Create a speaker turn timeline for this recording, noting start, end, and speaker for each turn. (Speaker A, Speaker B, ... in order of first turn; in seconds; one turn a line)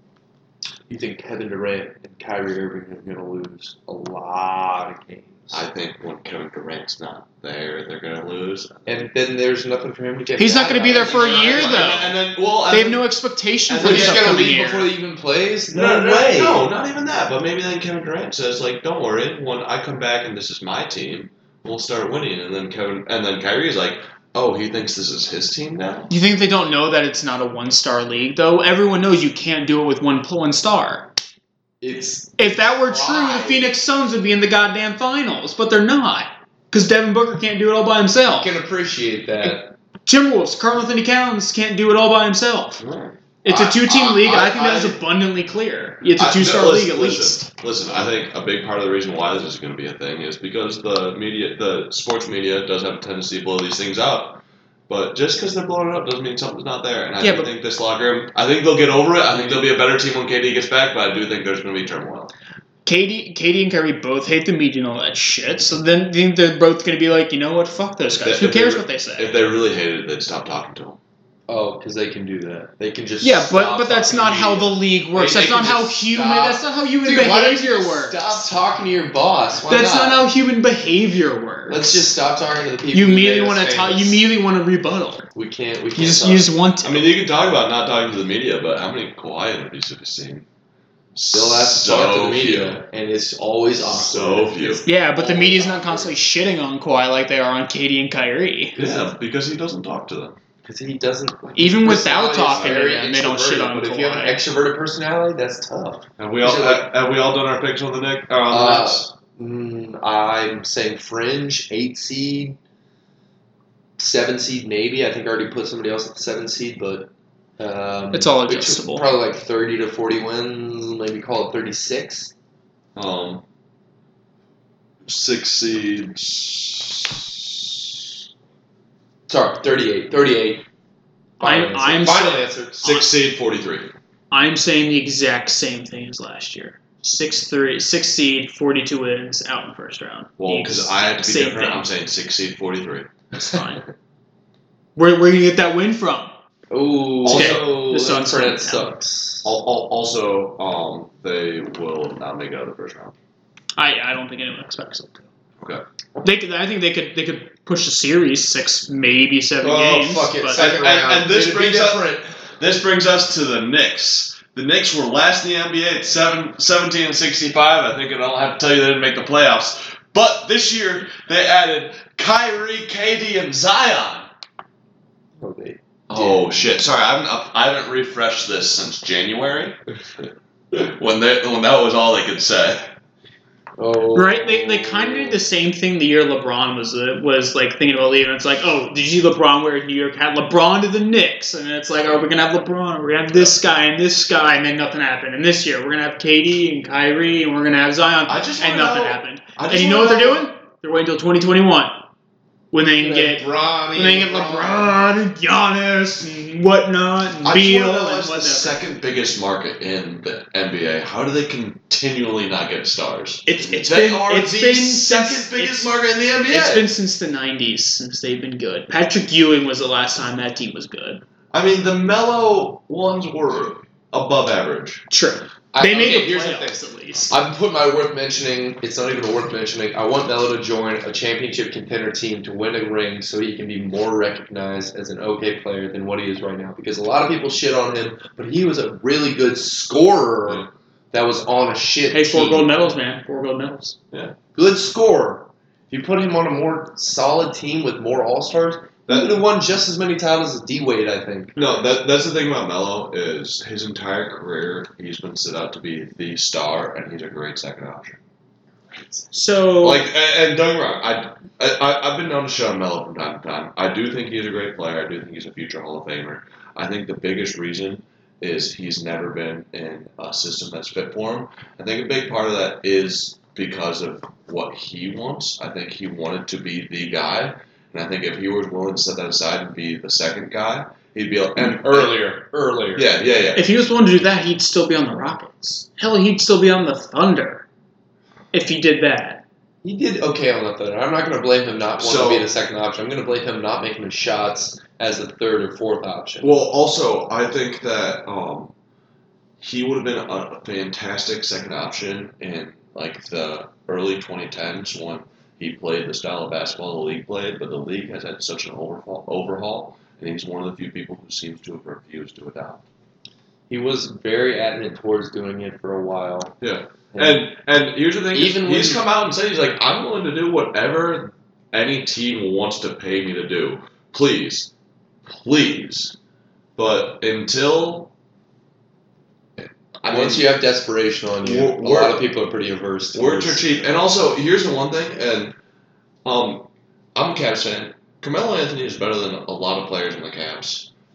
Speaker A: 0.9-5.6
Speaker B: 5.5-9.1
Speaker A: 8.8-12.1
Speaker C: 10.4-12.1
Speaker B: 11.0-13.0
Speaker C: 12.7-14.9
Speaker B: 13.7-14.4
Speaker A: 13.8-16.7
Speaker B: 15.7-26.1
Speaker C: 26.1-31.1
Speaker A: 31.8-33.7
Speaker C: 32.4-38.5
Speaker A: 38.2-39.7
Speaker C: 39.4-42.8
Speaker B: 42.8-45.0
Speaker C: 43.4-47.5
Speaker B: 46.2-62.3
Speaker C: 57.2-57.5
Speaker C: 62.9-69.3
Speaker B: 68.2-71.0
Speaker A: 71.5-80.2
Speaker C: 73.2-78.2
Speaker C: 79.7-82.0
Speaker A: 81.7-84.2
Speaker C: 82.9-85.3
Speaker A: 85.3-86.5
Speaker C: 86.0-87.1
Speaker B: 86.8-90.4
Speaker B: 91.1-92.8
Speaker A: 91.3-96.1
Speaker B: 93.8-94.8
Speaker C: 94.8-98.8
Speaker B: 98.8-100.4
Speaker A: 100.6-106.9
Speaker C: 101.5-104.4
Speaker B: 106.2-109.1
Speaker A: 108.5-112.6
Speaker A: 114.0-122.3
Speaker C: 118.1-119.0
Speaker B: 122.9-123.4
Speaker B: 125.0-127.4
Speaker A: 129.3-130.6
Speaker A: 131.4-132.9
Speaker C: 131.4-133.1
Speaker B: 132.8-133.9
Speaker C: 134.3-141.8
Speaker B: 140.4-143.1
Speaker C: 143.3-143.8
Speaker C: 144.9-146.3
Speaker A: 146.7-149.5
Speaker B: 147.2-147.7
Speaker C: 147.3-148.9
Speaker B: 149.4-153.1
Speaker C: 153.8-155.2
Speaker C: 156.2-160.6
Speaker A: 159.6-162.2
Speaker B: 160.5-174.3
Speaker A: 175.4-176.6
Speaker B: 176.1-179.8
Speaker B: 180.7-182.8
Speaker A: 183.8-185.4
Speaker C: 184.1-201.9
Speaker B: 198.3-200.5
Speaker C: 202.7-208.8
Speaker A: 203.0-205.1
Speaker B: 207.4-216.9
Speaker C: 213.4-215.9
Speaker C: 216.4-221.2
Speaker B: 221.5-225.0
Speaker C: 225.1-227.3
Speaker A: 225.7-226.8
Speaker A: 227.3-242.9
Speaker C: 242.1-243.9
Speaker A: 244.5-251.6
Speaker B: 249.1-249.4
Speaker B: 251.6-258.2
Speaker C: 259.3-260.0
Speaker B: 259.8-282.2
Speaker A: 281.6-283.1
Speaker B: 282.9-283.6
Speaker C: 283.5-287.6
Speaker C: 288.5-289.4
Speaker A: 289.8-296.5
Speaker B: 292.0-292.5
Speaker B: 296.4-298.7
Speaker B: 299.6-312.8
Speaker A: 313.7-316.5
Speaker B: 316.6-324.7
Speaker A: 317.1-317.4
Speaker A: 318.3-319.0
Speaker B: 325.2-326.1
Speaker B: 326.8-328.1
Speaker B: 329.6-330.5
Speaker A: 330.0-333.6
Speaker B: 331.4-332.2
Speaker B: 333.1-335.5
Speaker B: 336.2-340.9